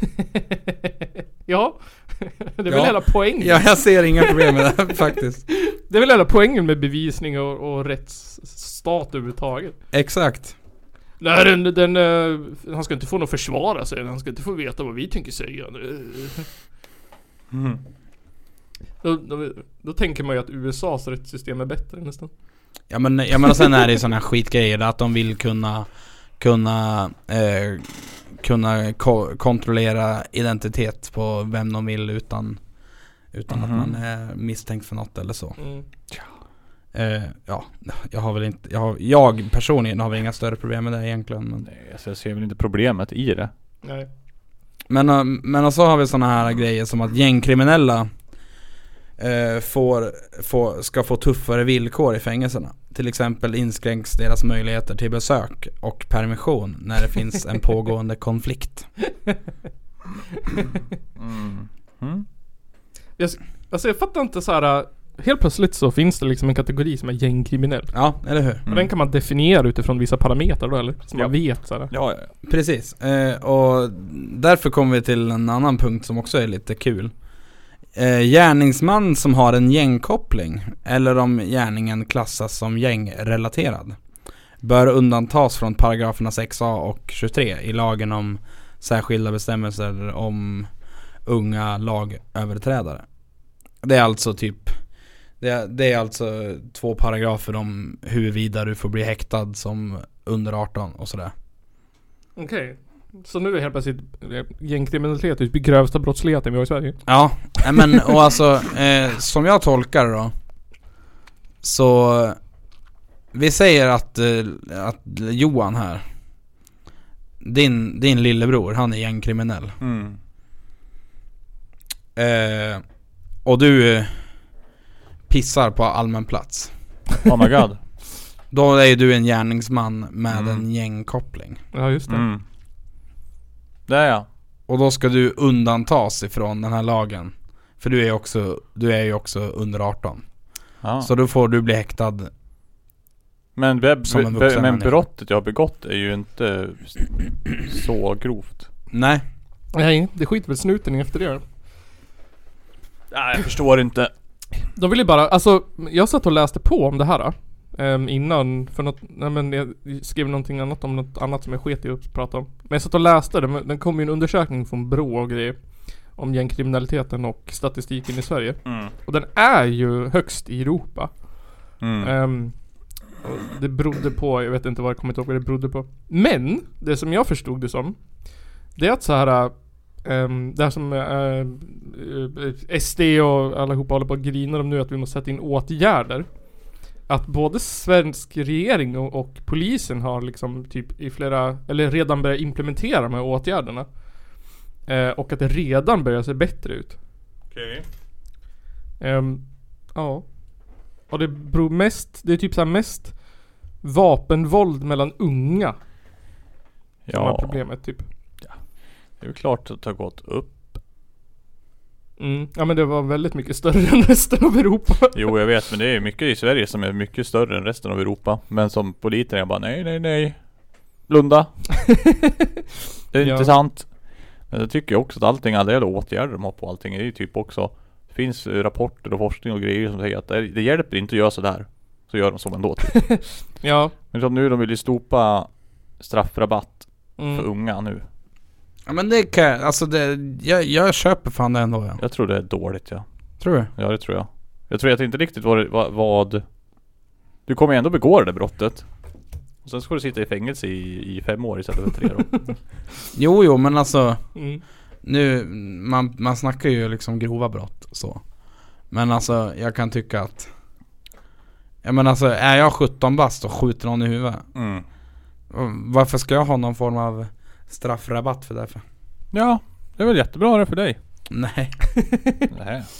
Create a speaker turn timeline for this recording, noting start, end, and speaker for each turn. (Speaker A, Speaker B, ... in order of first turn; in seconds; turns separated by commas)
Speaker A: 0.2-4.5, Speaker B: 2.7-5.4, Speaker A: 5.5-9.8, Speaker B: 9.9-10.5, Speaker A: 11.2-16.5, Speaker C: 17.5-17.8, Speaker A: 19.0-22.3, Speaker B: 22.9-25.9, Speaker B: 26.4-32.6, Speaker B: 33.3-35.6, Speaker C: 33.5-33.9, Speaker A: 35.6-35.9, Speaker B: 36.9-41.7, Speaker C: 41.7-43.5, Speaker A: 43.8-44.1, Speaker B: 44.9-48.1, Speaker B: 49.2-58.9, Speaker C: 61.2-62.2, Speaker A: 63.2-67.9, Speaker B: 67.9-68.6, Speaker A: 68.7-71.9, Speaker C: 71.9-72.3, Speaker B: 72.4-77.1, Speaker B: 78.0-84.0, Speaker B: 84.6-90.7, Speaker B: 91.3-93.0, Speaker B: 93.8-94.7, Speaker B: 95.4-101.3, Speaker A: 102.4-107.0, Speaker B: 107.1-110.3, Speaker A: 107.6-108.1, Speaker B: 111.6-112.4, Speaker B: 113.3-116.0, Speaker B: 117.4-119.8, Speaker C: 119.8-120.2, Speaker B: 122.2-122.8, Speaker B: 123.5-124.2, Speaker B: 125.3-126.7, Speaker C: 127.2-127.8, Speaker B: 128.5-131.6, Speaker C: 130.3-130.6, Speaker A: 131.7-132.3, Speaker C: 132.1-132.4, Speaker C: 133.9-134.3, Speaker B: 134.7-140.2, Speaker C: 140.8-141.1, Speaker B: 141.0-142.3, Speaker C: 143.6-148.7, Speaker B: 144.1-144.9, Speaker B: 148.9-149.2, Speaker A: 149.7-151.4, Speaker C: 153.1-154.1, Speaker A: 154.8-165.6, Speaker A: 166.2-171.1, Speaker C: 168.7-168.9, Speaker C: 171.8-172.1, Speaker A: 172.0-172.5, Speaker A: 173.2-178.0, Speaker A: 178.8-186.3, Speaker A: 187.1-193.9, Speaker A: 194.9-197.0, Speaker C: 197.5-197.8, Speaker A: 199.0-200.3, Speaker A: 201.1-203.2, Speaker A: 203.8-205.8, Speaker C: 207.1-207.6, Speaker A: 207.1-208.1, Speaker C: 209.2-210.8, Speaker A: 212.2-215.2, Speaker C: 215.1-220.4, Speaker C: 221.1-221.6, Speaker A: 221.8-222.3, Speaker C: 223.1-223.9, Speaker A: 223.2-223.5, Speaker C: 224.5-233.2, Speaker A: 232.9-233.9, Speaker C: 234.1-238.0, Speaker A: 237.2-237.4, Speaker B: 238.9-242.0, Speaker C: 242.0-243.1, Speaker B: 243.4-243.7, Speaker C: 243.8-246.4, Speaker C: 247.5-248.9, Speaker C: 249.6-252.6, Speaker B: 253.1-254.2, Speaker A: 254.3-254.6, Speaker B: 255.0-258.2, Speaker B: 258.9-260.5, Speaker B: 261.8-264.5, Speaker C: 264.6-264.8, Speaker B: 265.5-268.8, Speaker C: 269.3-271.0, Speaker B: 271.3-271.8, Speaker C: 272.5-272.9